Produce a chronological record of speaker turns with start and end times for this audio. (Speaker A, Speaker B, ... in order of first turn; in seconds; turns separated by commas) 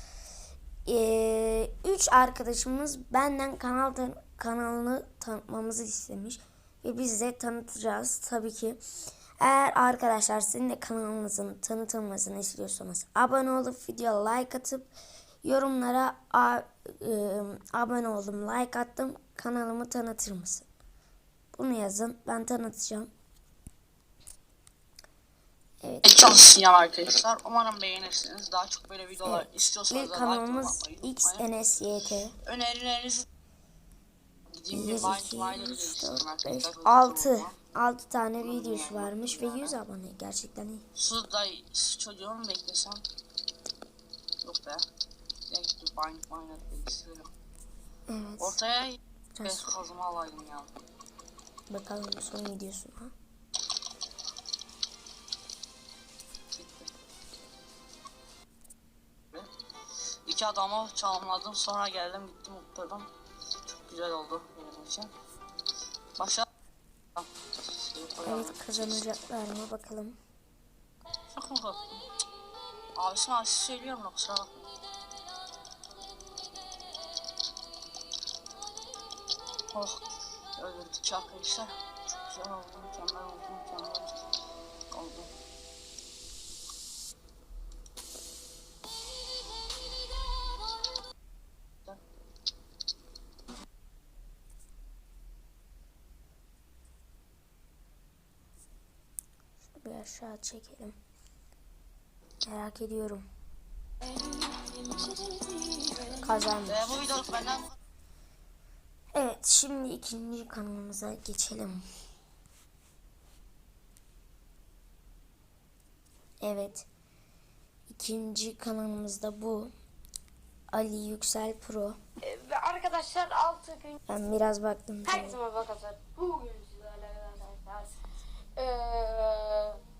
Speaker A: 0.8-8.8, Speaker A: 9.4-14.9, Speaker A: 15.4-20.7, Speaker A: 21.5-23.1, Speaker A: 25.8-26.2, Speaker B: 26.1-31.5, Speaker A: 29.2-32.4, Speaker B: 32.4-33.3, Speaker B: 34.5-37.6, Speaker A: 34.7-40.9, Speaker B: 38.4-39.8, Speaker B: 40.9-43.1, Speaker B: 44.4-44.9, Speaker B: 45.5-47.3, Speaker A: 48.1-48.6, Speaker B: 48.4-50.7, Speaker A: 49.4-49.7, Speaker A: 51.7-53.1, Speaker B: 56.5-56.9, Speaker B: 60.3-63.1, Speaker B: 63.6-65.1, Speaker B: 66.2-66.5, Speaker B: 67.2-69.1, Speaker A: 68.2-70.2, Speaker B: 71.3-72.1, Speaker B: 73.0-74.7, Speaker B: 79.7-80.0, Speaker B: 80.6-84.2, Speaker B: 84.9-85.3, Speaker A: 99.8-101.0, Speaker A: 102.5-103.3, Speaker B: 104.7-105.8, Speaker A: 106.2-106.9, Speaker B: 106.7-107.7, Speaker A: 109.1-111.8, Speaker A: 116.4-116.9, Speaker A: 117.9-119.7, Speaker A: 120.7-122.0, Speaker C: 122.2-124.0, Speaker A: 124.1-125.4, Speaker C: 125.1-128.0, Speaker C: 128.6-129.8